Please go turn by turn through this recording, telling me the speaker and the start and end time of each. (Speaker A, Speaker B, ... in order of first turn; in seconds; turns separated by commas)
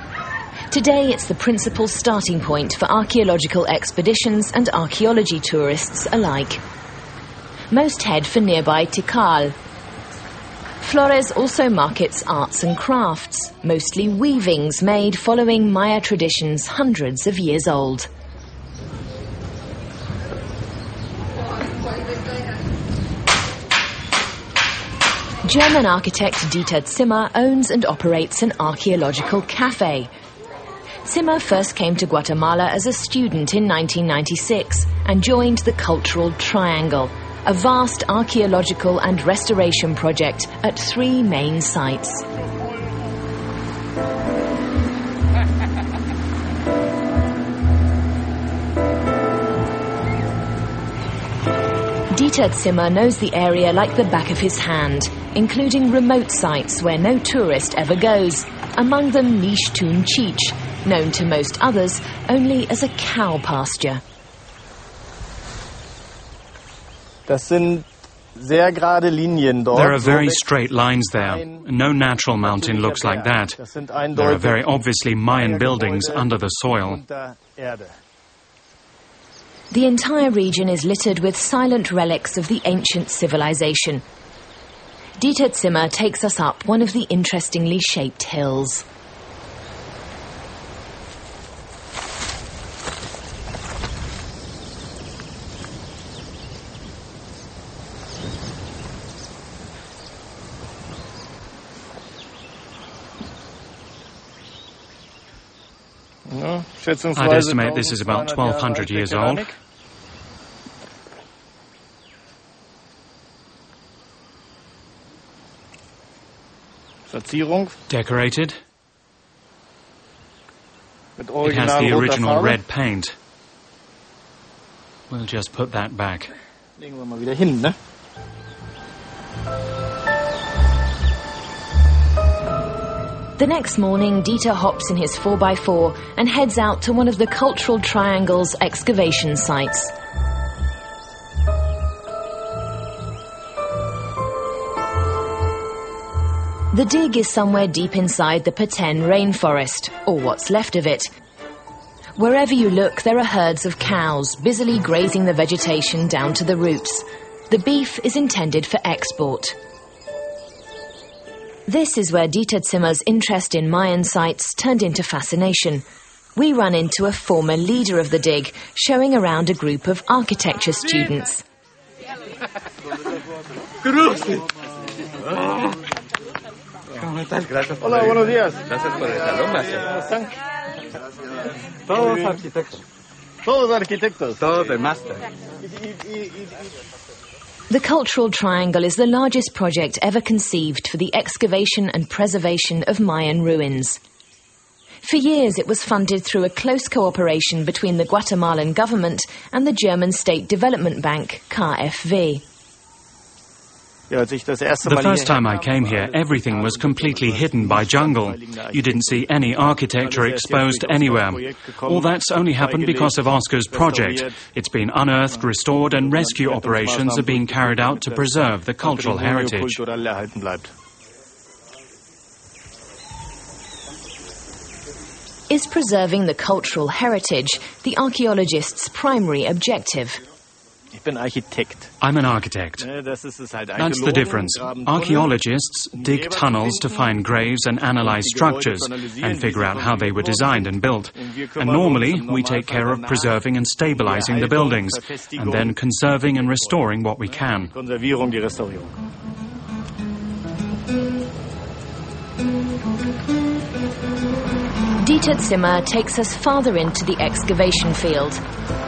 Speaker A: 0.7-6.6, Speaker A: 7.7-9.5, Speaker A: 10.8-18.1, Speaker A: 25.4-30.1, Speaker A: 31.1-42.2, Speaker A: 52.1-64.0, Speaker B: 67.3-70.5, Speaker C: 69.7-73.6, Speaker B: 71.1-71.7, Speaker B: 72.4-74.7, Speaker C: 74.1-77.0, Speaker B: 75.3-78.0, Speaker A: 79.7-84.0, Speaker A: 85.2-88.8, Speaker B: 106.3-109.5, Speaker C: 107.1-109.5, Speaker B: 117.1-117.8, Speaker C: 117.9-118.6, Speaker B: 121.2-122.6, Speaker C: 121.4-123.2, Speaker C: 125.1-126.3, Speaker B: 126.8-127.8, Speaker A: 133.4-139.9, Speaker A: 146.7-151.1, Speaker A: 152.2-159.6, Speaker A: 161.7-165.8, Speaker A: 166.3-171.4, Speaker D: 173.8-174.4, Speaker D: 175.3-175.7, Speaker D: 177.0-179.9, Speaker B: 177.8-178.8, Speaker B: 179.7-180.3, Speaker D: 181.9-182.8, Speaker B: 181.9-182.4, Speaker B: 183.4-184.5, Speaker D: 184.4-185.3, Speaker B: 185.6-186.5, Speaker A: 187.7-194.0, Speaker A: 195.0-202.4, Speaker B: 204.1-214.4, Speaker C: 204.8-219.8, Speaker B: 215.4-220.7, Speaker A: 225.5-230.2, Speaker B: 230.9-231.9, Speaker C: 232.0-232.9, Speaker B: 232.8-235.3, Speaker C: 233.8-247.8, Speaker B: 235.9-237.2, Speaker B: 238.0-243.3, Speaker B: 243.9-248.9, Speaker A: 255.0-258.4